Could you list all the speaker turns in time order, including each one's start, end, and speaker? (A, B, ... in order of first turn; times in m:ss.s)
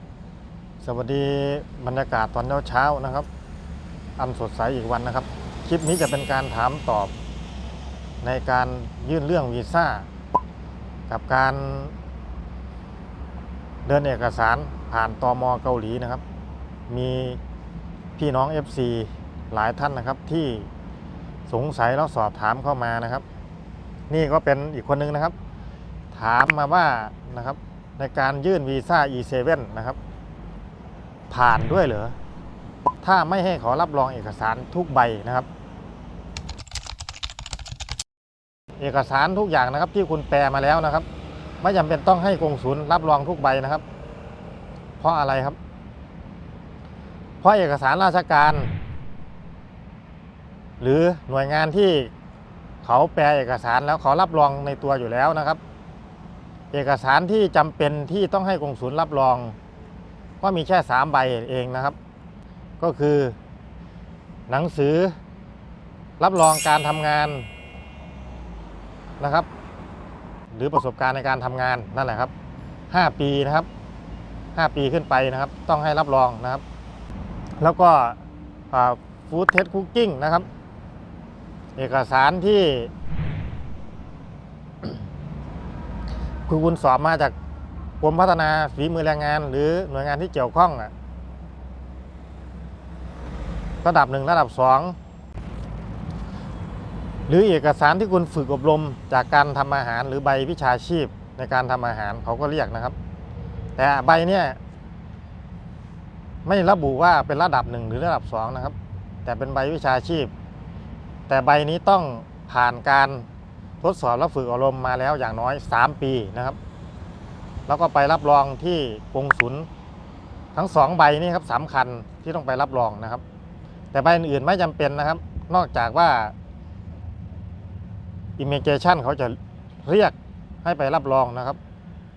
0:00.8-0:03.3 A
0:04.2-0:07.1 A
0:08.2-0:10.1 A
0:11.1-0:12.0 A
0:13.9-0:16.2 A
0:16.9-0:17.4 A
0:18.2-0:20.7 A
0:21.5-0:23.2 A
0:24.1-0:25.4 A
0:26.1-0:30.0 A
0:31.3-0:32.2 A
0:33.0-0:35.5 A
0:38.8-0:41.1 A
0:41.6-0:43.8 A
0:45.0-0:45.6 A
0:47.4-0:48.7 A
0:50.8-0:52.1 A
0:52.8-0:55.6 A
0:56.7-0:59.6 A
1:00.4-1:02.0 A
1:02.8-1:03.4 A
1:04.5-1:05.2 A
1:06.2-1:07.5 A
1:09.2-1:09.5 A
1:10.5-1:12.3 A
1:12.9-1:13.7 A
1:14.6-1:16.6 A
1:17.6-1:18.2 A
1:18.7-1:20.5 A
1:21.8-1:22.9 A
1:26.5-1:27.4 A
1:28.0-1:30.9 A
1:33.8-1:35.0 A
1:37.3-1:43.0 A
1:43.8-1:44.6 A
1:46.4-1:50.3 A
1:51.3-1:53.3 A
1:53.8-1:56.6 A
1:57.7-1:59.7 A
2:00.5-2:03.2 A
2:03.9-2:06.3 A
2:08.4-2:11.6 A